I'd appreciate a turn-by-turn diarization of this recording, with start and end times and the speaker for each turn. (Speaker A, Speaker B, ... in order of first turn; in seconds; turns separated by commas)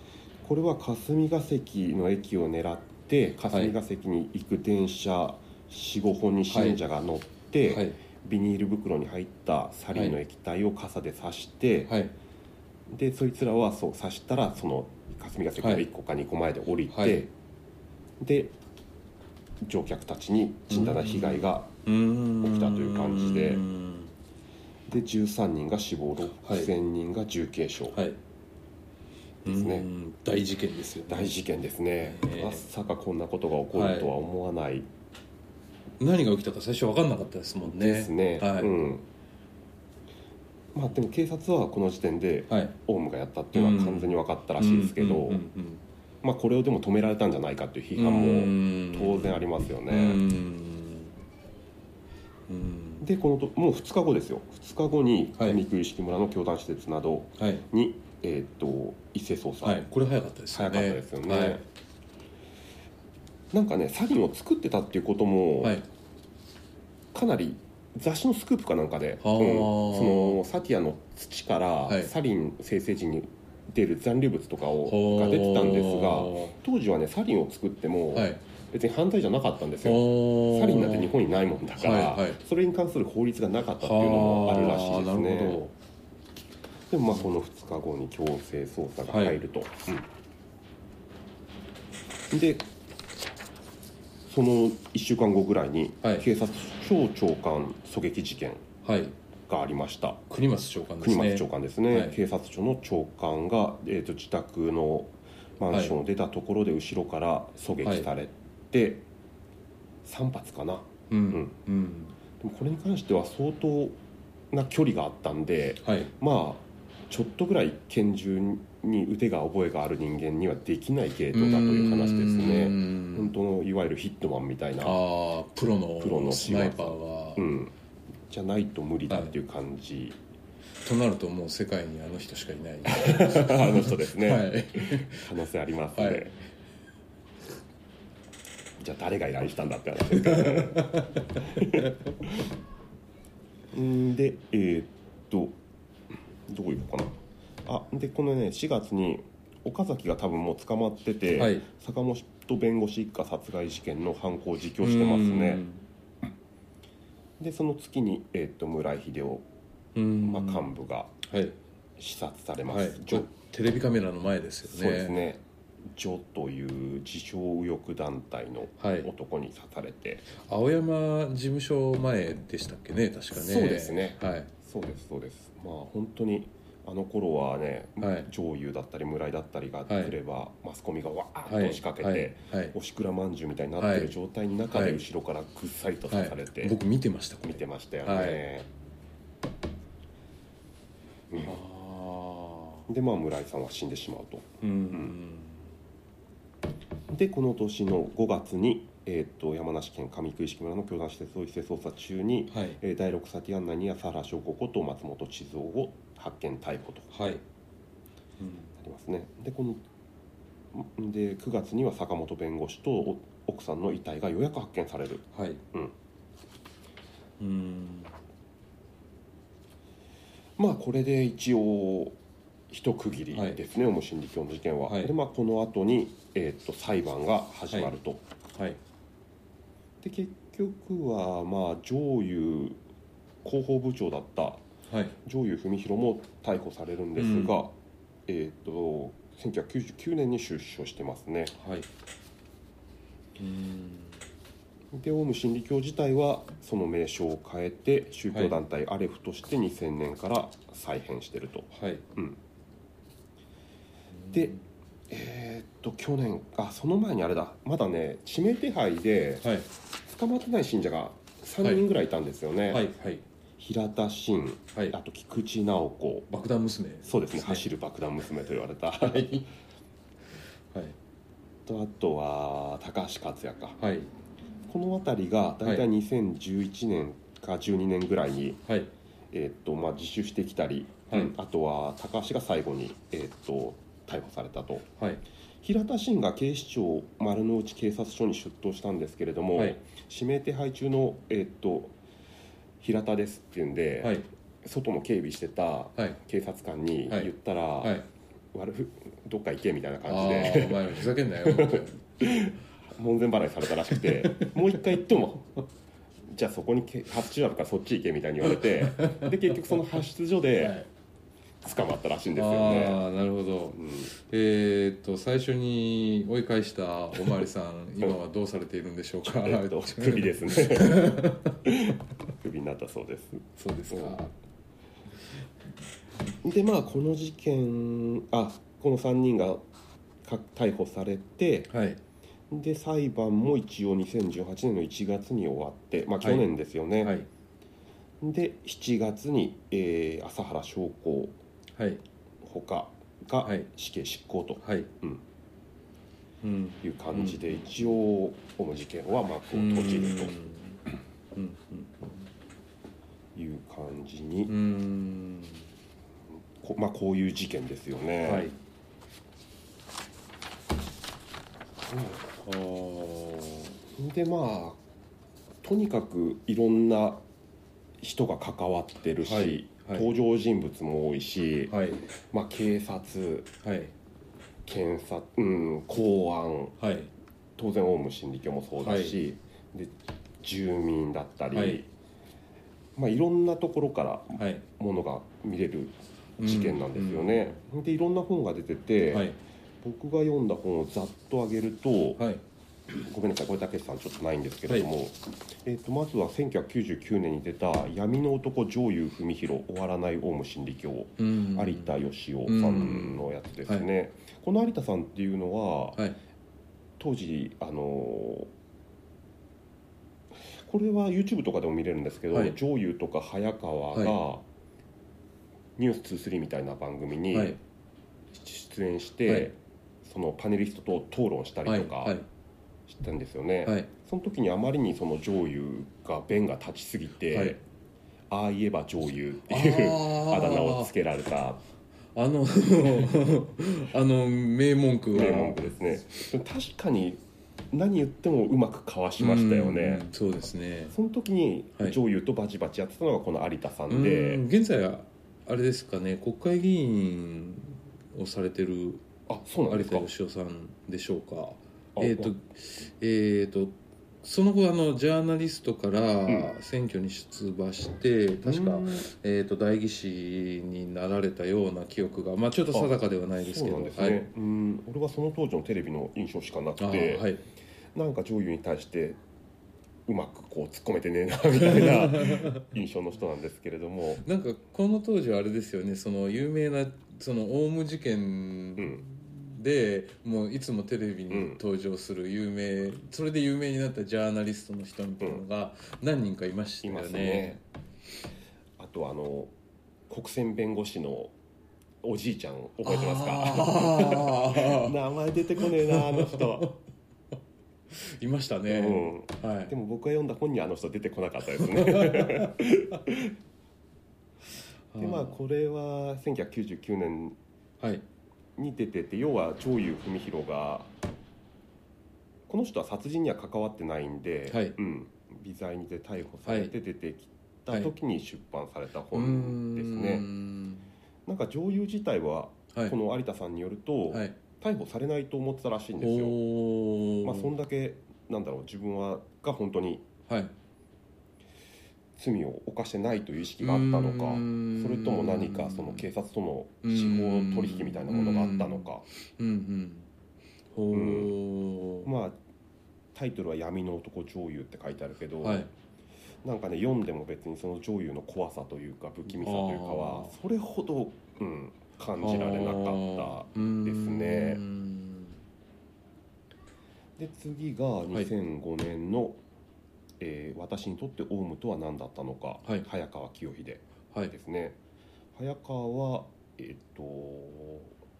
Speaker A: 0.4-12.0, Speaker B: 6.5-6.8, Speaker B: 7.7-8.0, Speaker B: 9.9-10.2, Speaker B: 11.9-12.1, Speaker A: 12.9-17.3, Speaker B: 15.6-15.8, Speaker B: 16.9-17.2, Speaker A: 18.2-18.6, Speaker A: 19.6-21.7, Speaker B: 20.7-24.1, Speaker A: 22.4-23.6, Speaker A: 24.9-28.0, Speaker B: 26.4-26.7, Speaker B: 27.9-28.2, Speaker B: 29.4-31.3, Speaker A: 29.4-29.9, Speaker A: 31.1-34.9, Speaker B: 32.0-32.7, Speaker B: 33.7-34.1, Speaker B: 36.0-38.7, Speaker A: 37.6-39.0, Speaker A: 40.7-45.4, Speaker B: 42.5-42.7, Speaker B: 43.5-45.8, Speaker A: 46.2-50.2, Speaker B: 47.9-51.2, Speaker B: 52.5-53.0, Speaker A: 53.0-59.9, Speaker B: 57.4-57.6, Speaker B: 59.6-61.6, Speaker A: 60.5-61.6, Speaker A: 63.5-65.8, Speaker B: 65.6-65.8, Speaker A: 67.1-85.6, Speaker B: 69.2-70.4, Speaker B: 74.8-76.5, Speaker B: 78.1-78.4, Speaker B: 79.8-81.2, Speaker B: 81.8-82.4, Speaker B: 83.8-85.7, Speaker A: 86.9-90.1, Speaker B: 89.1-89.4, Speaker A: 92.3-92.7, Speaker A: 94.3-98.7, Speaker B: 98.8-99.2, Speaker A: 99.5-100.3, Speaker B: 100.3-102.2, Speaker A: 101.0-109.0, Speaker B: 105.7-106.0, Speaker B: 107.8-108.1, Speaker A: 110.0-111.6, Speaker B: 111.1-112.2, Speaker A: 112.4-114.0, Speaker A: 114.5-125.0, Speaker B: 115.8-116.1, Speaker B: 121.3-123.3, Speaker B: 124.8-127.5, Speaker A: 126.0-127.7, Speaker A: 128.3-130.2, Speaker B: 129.1-129.4, Speaker B: 130.8-135.3, Speaker A: 132.9-136.3, Speaker B: 135.9-136.4, Speaker A: 138.8-142.5, Speaker B: 140.1-141.9, Speaker A: 143.7-145.6, Speaker A: 146.5-155.7, Speaker B: 151.3-151.7, Speaker B: 154.8-155.8, Speaker A: 157.4-159.4, Speaker B: 159.9-160.7, Speaker A: 160.2-161.2, Speaker B: 161.2-161.6, Speaker A: 162.0-163.3, Speaker B: 162.7-165.2, Speaker A: 164.7-170.3, Speaker B: 168.8-169.1, Speaker B: 170.4-174.5, Speaker A: 173.3-186.8, Speaker B: 178.0-178.3, Speaker B: 179.9-180.2, Speaker B: 181.5-182.8, Speaker B: 183.8-184.1, Speaker B: 184.7-185.0, Speaker B: 186.1-188.4, Speaker A: 187.4-188.7, Speaker A: 191.3-191.6, Speaker B: 191.4-192.8, Speaker A: 192.9-195.2, Speaker B: 194.6-195.7, Speaker A: 197.1-207.4, Speaker B: 202.5-202.8, Speaker B: 207.1-207.4, Speaker B: 208.4-208.7, Speaker A: 208.8-209.8, Speaker A: 210.7-215.9, Speaker B: 215.3-215.6, Speaker B: 217.4-218.1, Speaker A: 220.6-222.2, Speaker A: 222.7-228.2, Speaker B: 223.3-223.6, Speaker B: 224.8-225.1, Speaker A: 230.0-232.8, Speaker A: 233.4-234.6, Speaker B: 234.9-235.2, Speaker A: 235.2-237.7, Speaker B: 237.2-237.6, Speaker A: 238.3-241.6, Speaker B: 241.6-241.9, Speaker B: 243.4-244.2, Speaker A: 244.9-252.4, Speaker B: 248.3-248.6, Speaker B: 251.7-252.0, Speaker B: 254.1-254.6, Speaker A: 255.1-262.9, Speaker B: 259.4-259.7, Speaker B: 262.7-263.2, Speaker A: 263.6-266.3, Speaker B: 266.3-267.6, Speaker A: 267.0-269.4, Speaker B: 269.0-269.5, Speaker B: 270.7-271.0, Speaker A: 271.6-273.8, Speaker B: 273.8-274.1, Speaker A: 274.7-278.6, Speaker A: 279.3-284.9, Speaker A: 285.6-291.9, Speaker A: 292.8-298.0, Speaker B: 294.0-294.3, Speaker B: 297.1-298.1, Speaker A: 298.5-305.6, Speaker B: 300.0-302.0, Speaker B: 303.9-305.0, Speaker A: 306.3-310.8, Speaker B: 309.0-309.3, Speaker A: 311.6-313.0, Speaker B: 312.3-321.6, Speaker A: 313.7-314.1, Speaker A: 319.2-324.2, Speaker B: 323.6-324.3, Speaker A: 326.4-329.6, Speaker A: 330.2-331.7, Speaker B: 331.7-332.0, Speaker A: 332.5-337.2, Speaker B: 336.2-337.3, Speaker A: 338.2-341.4, Speaker B: 341.7-342.0, Speaker A: 342.4-345.2, Speaker B: 343.4-343.7, Speaker B: 344.6-344.9, Speaker B: 346.4-347.9, Speaker A: 346.8-350.4, Speaker B: 349.5-352.3, Speaker A: 353.3-354.5, Speaker B: 354.5-355.7, Speaker A: 356.6-358.5, Speaker B: 358.2-358.6, Speaker B: 362.2-363.8, Speaker A: 363.9-364.8, Speaker A: 365.6-367.2, Speaker A: 368.0-371.8, Speaker B: 369.2-370.1, Speaker B: 371.7-372.0, Speaker A: 372.3-373.5, Speaker B: 373.6-373.9, Speaker A: 374.6-376.8, Speaker B: 376.8-377.1, Speaker A: 377.6-381.9, Speaker B: 378.8-379.2, Speaker B: 381.5-381.8, Speaker A: 382.9-392.2, Speaker B: 384.4-384.6, Speaker B: 386.4-387.6, Speaker B: 389.1-389.4, Speaker B: 392.2-392.4, Speaker A: 392.9-406.1, Speaker B: 401.2-403.9, Speaker A: 407.0-408.5, Speaker A: 410.4-414.4, Speaker A: 415.8-417.6, Speaker B: 417.3-417.6, Speaker A: 418.3-422.2, Speaker B: 419.2-419.5, Speaker B: 421.6-422.3, Speaker A: 422.9-427.6, Speaker B: 423.6-423.9, Speaker B: 427.3-427.6, Speaker A: 428.3-431.6, Speaker B: 429.4-430.9, Speaker B: 432.1-435.7, Speaker A: 435.1-437.2, Speaker A: 437.7-440.1, Speaker B: 439.2-440.9, Speaker A: 440.9-444.4, Speaker B: 443.9-449.1, Speaker A: 449.3-450.1, Speaker B: 449.7-464.3, Speaker A: 451.9-452.4, Speaker A: 456.3-456.5, Speaker A: 458.4-459.1, Speaker A: 462.7-467.3, Speaker B: 466.8-467.4, Speaker A: 467.9-469.2, Speaker A: 470.1-474.2, Speaker B: 471.6-472.6, Speaker B: 474.2-487.6, Speaker A: 478.8-479.0, Speaker A: 481.3-481.6, Speaker A: 486.8-487.6, Speaker A: 488.8-489.5, Speaker A: 490.1-491.3, Speaker A: 492.0-496.8, Speaker B: 492.8-495.0, Speaker B: 495.6-496.8, Speaker B: 497.9-499.7, Speaker A: 498.7-503.4, Speaker B: 501.6-502.5, Speaker B: 504.9-505.4, Speaker A: 505.0-507.4, Speaker B: 507.8-508.0, Speaker A: 508.6-510.9, Speaker A: 512.5-520.3, Speaker B: 514.5-514.8, Speaker B: 516.4-516.7, Speaker B: 519.1-520.9, Speaker A: 521.2-526.4, Speaker B: 524.1-524.4, Speaker B: 526.0-527.5, Speaker A: 527.2-530.1, Speaker B: 530.3-530.5, Speaker A: 532.2-539.0, Speaker B: 533.6-536.0, Speaker B: 536.8-540.1, Speaker B: 540.7-542.1, Speaker A: 540.9-541.4, Speaker A: 542.0-542.4, Speaker A: 543.1-545.7, Speaker B: 545.4-545.7, Speaker A: 546.4-554.6, Speaker B: 549.3-550.3, Speaker B: 552.2-555.4, Speaker A: 557.2-559.4, Speaker A: 560.2-564.8, Speaker A: 565.3-568.0